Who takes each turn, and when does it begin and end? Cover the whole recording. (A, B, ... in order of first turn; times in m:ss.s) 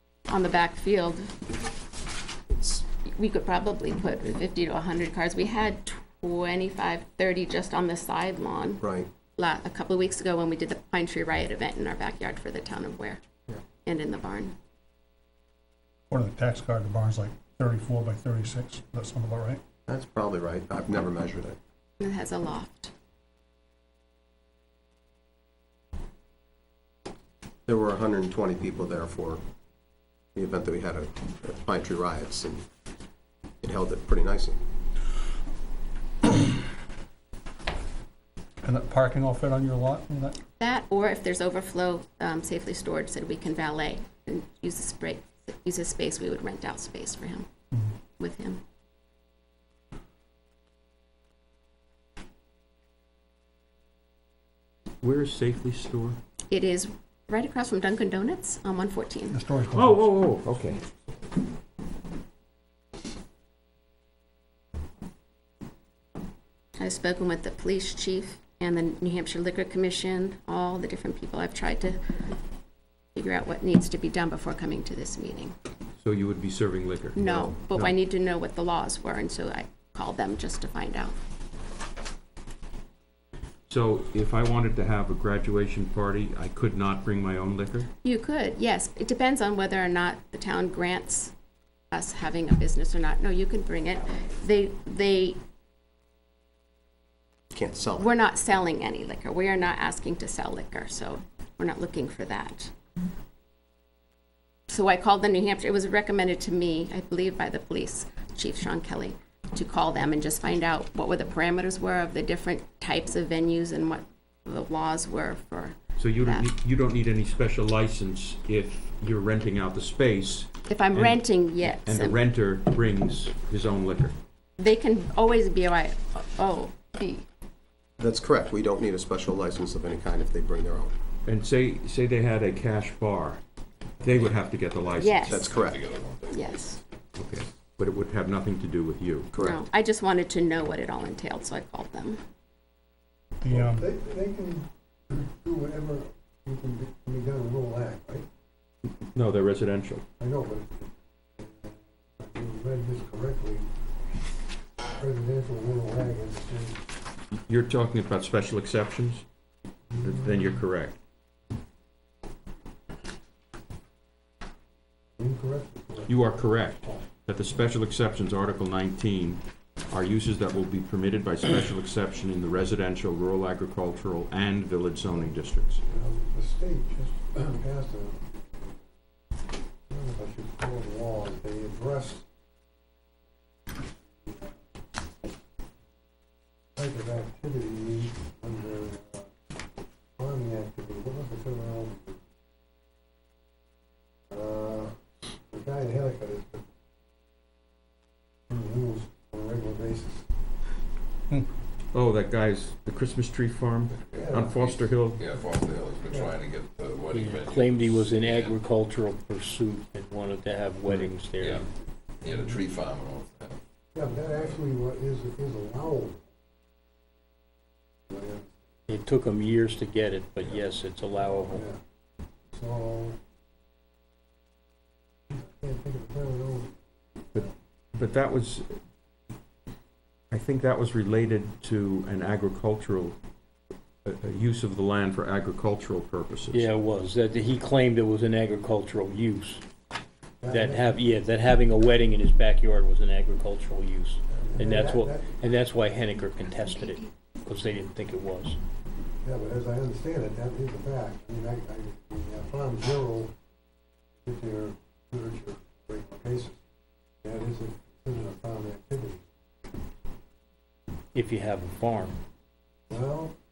0:00.3-0:01.3 A
0:02.6-0:08.8 A
0:08.8-0:09.1 B
0:09.4-0:13.2 A
0:13.8-0:14.6 A
0:16.1-0:19.6 C
0:19.9-0:21.6 B
0:22.0-0:22.9 A
0:27.7-0:29.4 B
0:30.4-0:32.6 B
0:33.6-0:34.6 B
0:38.6-0:40.4 C
0:40.6-0:47.5 A
0:48.2-0:48.6 A
0:55.0-0:56.2 D
0:56.5-0:59.4 A
0:59.3-1:00.1 C
0:59.7-1:00.8 D
1:06.8-1:12.0 A
1:13.2-1:15.6 A
1:16.0-1:18.0 D
1:17.2-1:21.2 A
1:23.7-1:27.9 D
1:28.0-1:31.3 A
1:31.9-1:35.4 A
1:37.5-1:38.1 B
1:38.0-1:42.7 A
1:44.7-1:56.5 A
1:56.0-2:04.2 D
2:00.7-2:02.2 A
2:04.6-2:07.2 A
2:08.0-2:10.9 B
2:11.2-2:13.4 D
2:14.0-2:15.4 D
2:15.0-2:15.6 A
2:15.3-2:15.8 B
2:15.4-2:16.6 E
2:16.3-2:16.8 A
2:17.2-2:19.3 D
2:19.3-2:19.6 B
2:19.4-2:22.2 A
2:23.4-2:23.8 C
2:23.5-2:28.3 F
2:29.1-2:30.0 D
2:30.2-2:33.7 F
2:34.9-2:36.8 F
2:37.5-2:39.2 D
2:39.9-2:40.6 F
2:40.0-2:41.0 D
2:45.2-2:46.1 F
2:46.1-2:55.8 D
2:55.9-2:58.8 F
2:59.9-3:02.2 F
3:04.3-3:04.5 F
3:06.8-3:09.3 F
3:10.2-3:12.2 F
3:14.3-3:15.0 F
3:15.5-3:16.6 F
3:18.5-3:20.3 F
3:21.9-3:25.2 D
3:24.1-3:24.6 F
3:25.2-3:28.6 E
3:27.1-3:31.7 G
3:31.4-3:31.7 E
3:32.2-3:33.6 E
3:33.9-3:36.3 F
3:38.1-3:38.5 F
3:38.9-3:41.6 G
3:41.5-3:41.8 F
3:42.5-3:43.2 F
3:45.3-3:47.5 F
3:48.0-3:48.8 D
3:50.3-3:53.2 D
3:54.0-3:56.7 D
3:56.5-3:59.6 G
4:00.4-4:00.9 F
4:00.5-4:08.6 G
4:04.4-4:05.4 F
4:09.2-4:13.3 F
4:14.2-4:16.6 F
4:17.2-4:19.2 F
4:21.1-4:22.2 G
4:22.9-4:23.3 F